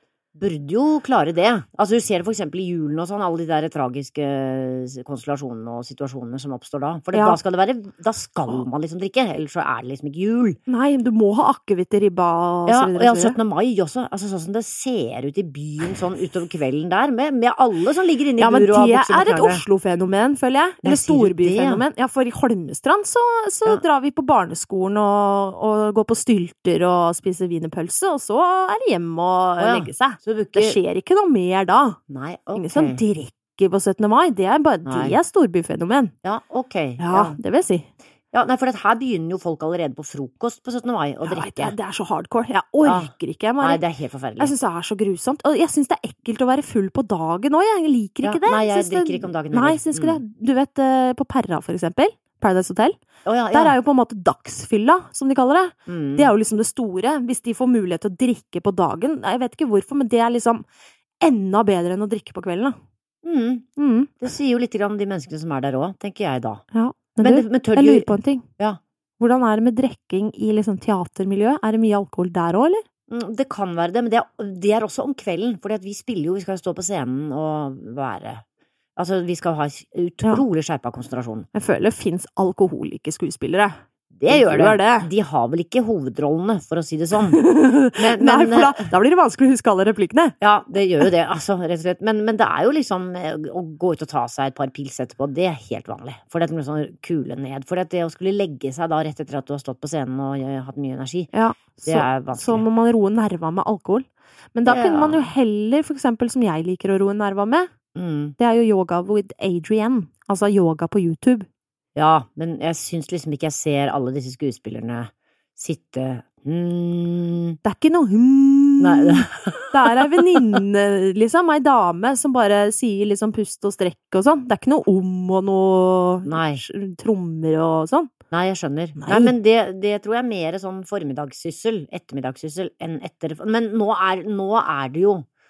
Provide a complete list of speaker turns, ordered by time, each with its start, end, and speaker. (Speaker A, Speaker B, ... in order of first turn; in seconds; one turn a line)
Speaker A: 0.3-10.6
Speaker B: 7.1-7.4
Speaker B: 10.7-13.4
Speaker A: 12.7-19.6
Speaker B: 18.4-32.0
Speaker A: 20.8-21.8
Speaker A: 29.6-30.8
Speaker A: 32.1-33.0
Speaker B: 32.5-36.1
Speaker A: 34.9-35.1
Speaker A: 36.2-37.4
Speaker B: 37.0-37.9
Speaker A: 38.3-41.7
Speaker B: 41.2-43.8
Speaker A: 42.8-43.1
Speaker A: 43.6-44.5
Speaker B: 44.4-52.9
Speaker A: 48.2-50.2
Speaker A: 53.2-53.8
Speaker B: 53.5-60.6
Speaker A: 55.9-56.3
Speaker B: 61.2-62.8
Speaker A: 63.2-63.6
Speaker B: 63.8-64.1
Speaker A: 64.2-66.6
Speaker B: 66.7-68.5
Speaker A: 67.2-68.8
Speaker B: 69.2-72.8
Speaker A: 73.1-78.4
Speaker A: 79.0-81.5
Speaker B: 81.5-83.8
Speaker A: 84.1-88.8
Speaker B: 84.3-85.1
Speaker B: 87.3-90.3
Speaker A: 90.4-101.3
Speaker B: 101.3-107.7
Speaker A: 101.8-102.6
Speaker A: 104.7-105.2
Speaker A: 107.9-108.3
Speaker B: 108.4-111.5
Speaker A: 112.0-117.6
Speaker B: 117.6-128.1
Speaker A: 118.8-120.6
Speaker A: 126.2-126.6
Speaker A: 128.3-135.3
Speaker B: 129.0-129.3